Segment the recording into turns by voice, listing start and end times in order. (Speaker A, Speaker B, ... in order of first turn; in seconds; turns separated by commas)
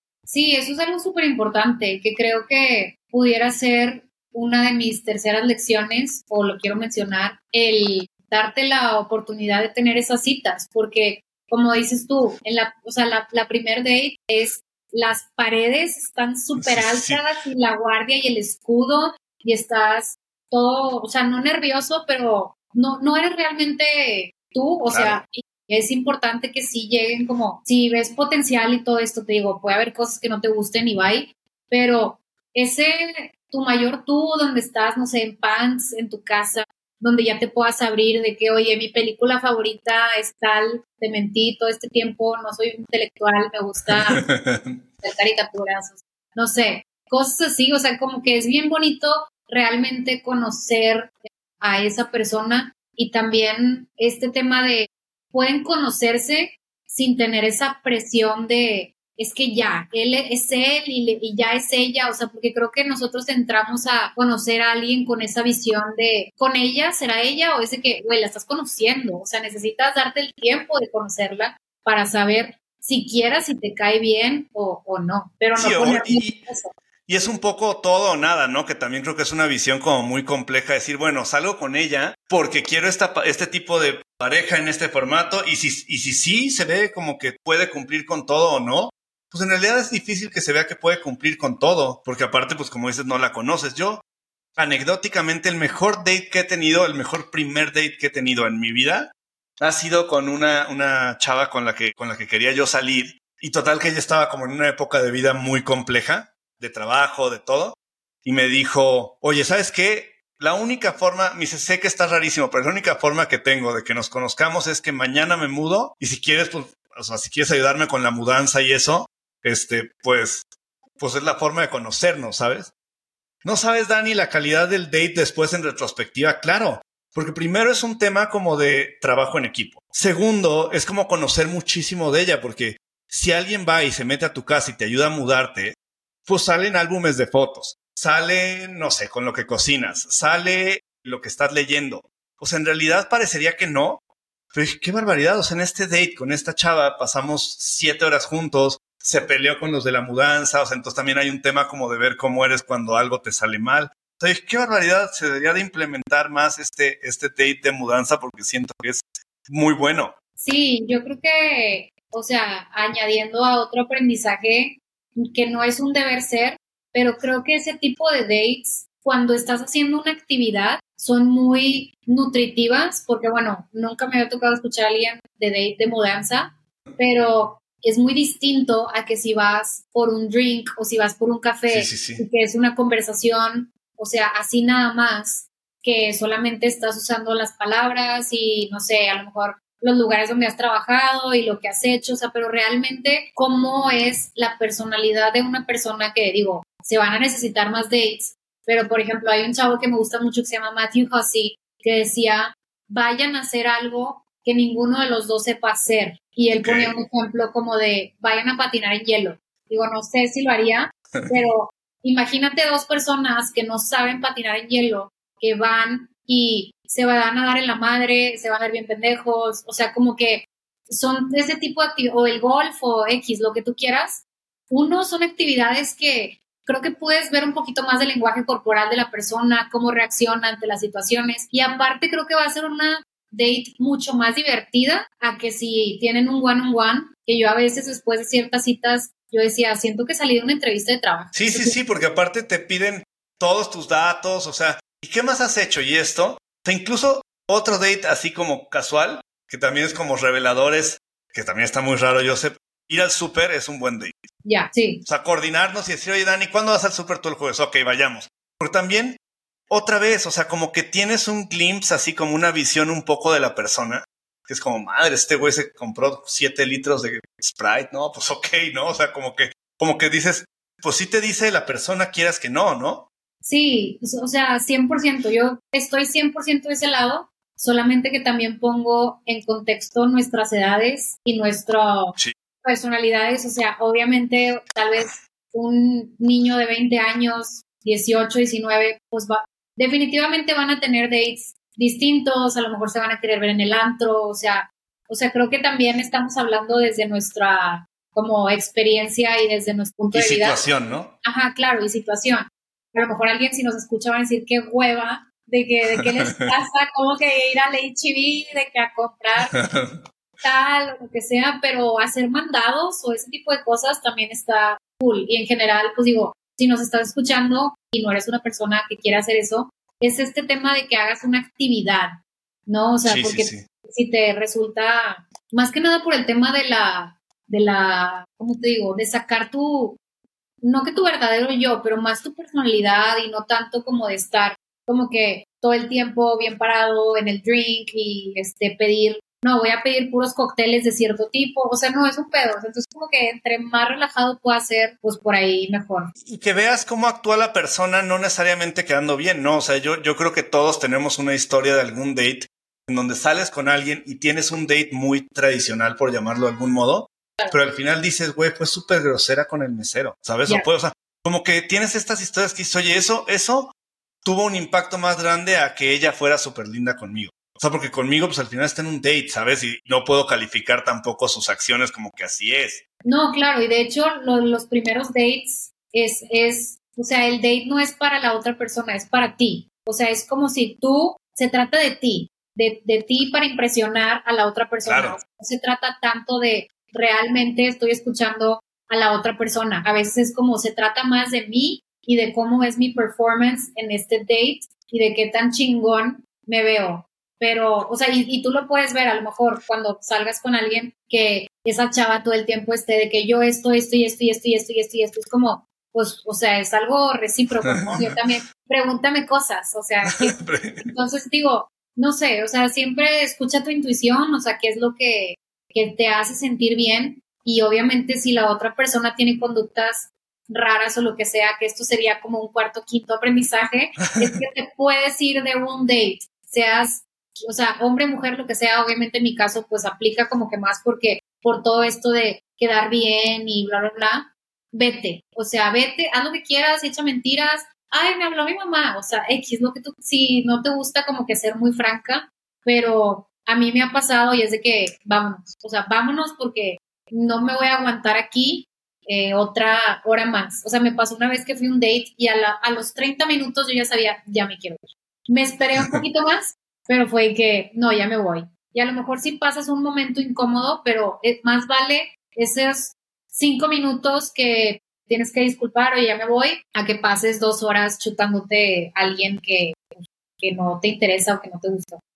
Speaker A: 0.3-44.2, Speaker B: 16.6-17.2, Speaker B: 24.9-25.2, Speaker B: 44.1-44.8, Speaker A: 45.0-76.7, Speaker B: 75.5-76.4, Speaker B: 77.1-94.0, Speaker B: 94.6-120.5, Speaker B: 121.0-122.7, Speaker B: 123.4-135.8, Speaker B: 136.3-144.0, Speaker B: 144.5-160.1, Speaker A: 160.4-241.8, Speaker B: 181.7-182.2, Speaker B: 206.6-206.9, Speaker B: 241.3-254.2, Speaker A: 254.4-255.0, Speaker B: 255.0-259.2, Speaker B: 259.7-273.1, Speaker A: 273.4-300.6, Speaker B: 300.1-301.1, Speaker A: 301.2-309.6, Speaker B: 306.0-306.5, Speaker B: 309.5-310.0, Speaker A: 310.4-322.1, Speaker A: 322.7-330.0, Speaker B: 323.0-323.6, Speaker A: 330.6-346.1, Speaker B: 346.2-372.8, Speaker A: 373.0-472.0, Speaker B: 384.8-385.2, Speaker B: 407.6-408.1, Speaker B: 410.1-410.9